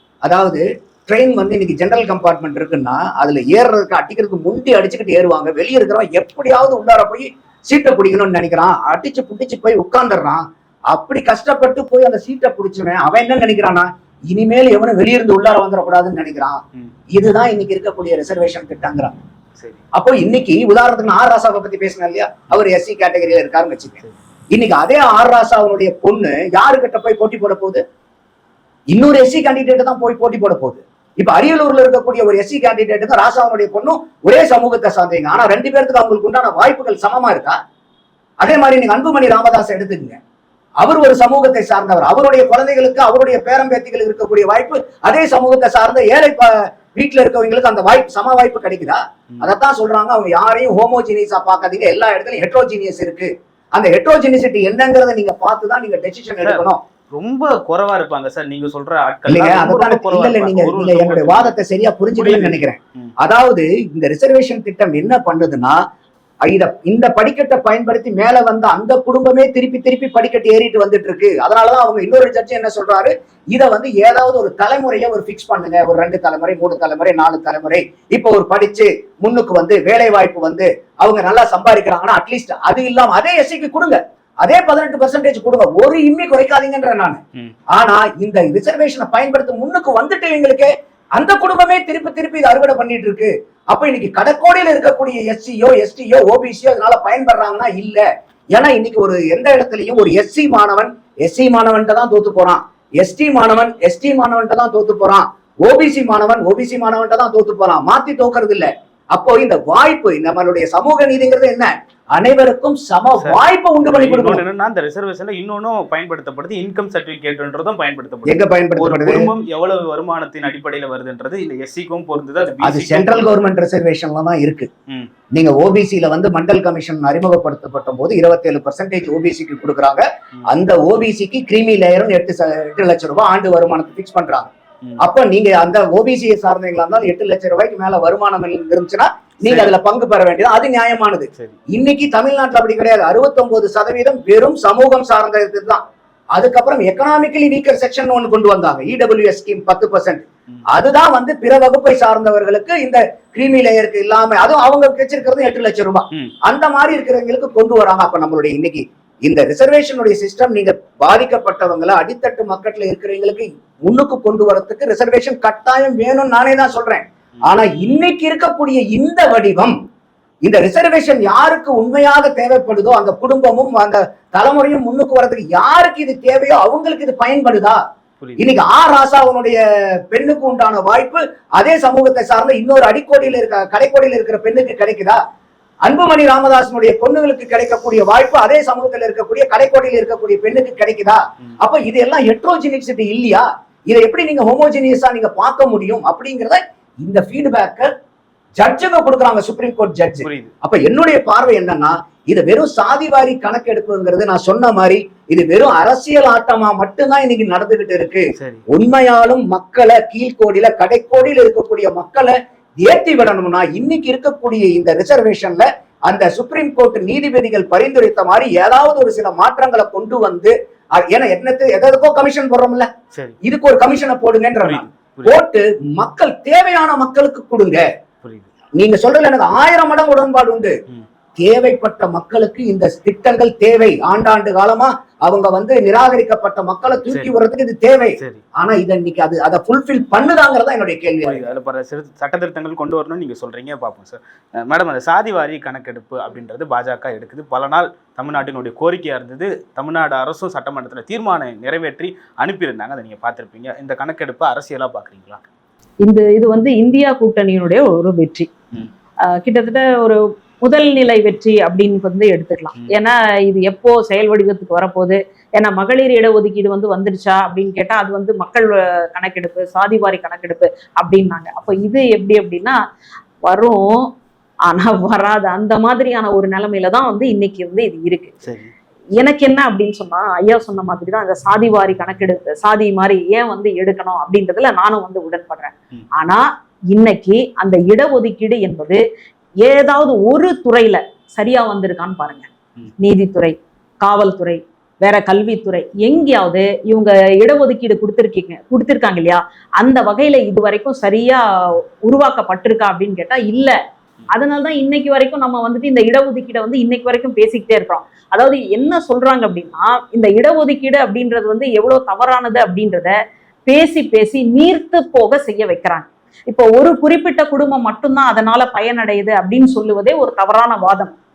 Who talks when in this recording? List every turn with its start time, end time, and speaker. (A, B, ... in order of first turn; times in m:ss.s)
0:00.2-0:16.6 A
0:17.1-0:19.2 A
0:19.6-0:19.8 B
0:20.0-0:24.0 A
0:24.5-0:27.8 A
0:28.9-0:37.6 A
0:38.4-0:40.2 A
0:40.8-0:56.8 A
0:56.4-1:01.5 B
0:59.3-1:05.8 A
1:02.2-1:03.1 B
1:06.4-1:27.2 A
1:27.7-1:54.4 A
1:53.2-2:03.3 B
1:58.3-1:59.3 A
2:02.6-2:04.7 A
2:05.3-2:25.8 A
2:19.4-2:19.7 B
2:26.4-2:49.8 A
2:50.4-2:57.8 A
2:58.2-2:58.5 B
2:58.4-2:59.6 A
3:00.1-3:05.2 A
3:05.9-3:17.9 A
3:18.6-3:42.9 A
3:20.2-3:20.5 B
3:28.4-3:28.6 B
3:43.1-3:43.4 B
3:43.4-3:47.8 A
3:44.6-3:45.4 B
3:48.8-3:50.8 A
3:51.4-4:01.5 A
4:01.2-4:15.4 B
4:16.0-4:18.5 C
4:19.2-4:32.8 C
4:33.5-4:34.1 C
4:34.7-4:38.4 C
4:38.4-4:38.7 B
4:39.2-4:49.0 C
4:49.6-4:52.5 C
4:53.0-5:01.4 C
5:02.0-5:03.8 C
5:04.3-5:13.2 C
5:13.7-5:21.2 C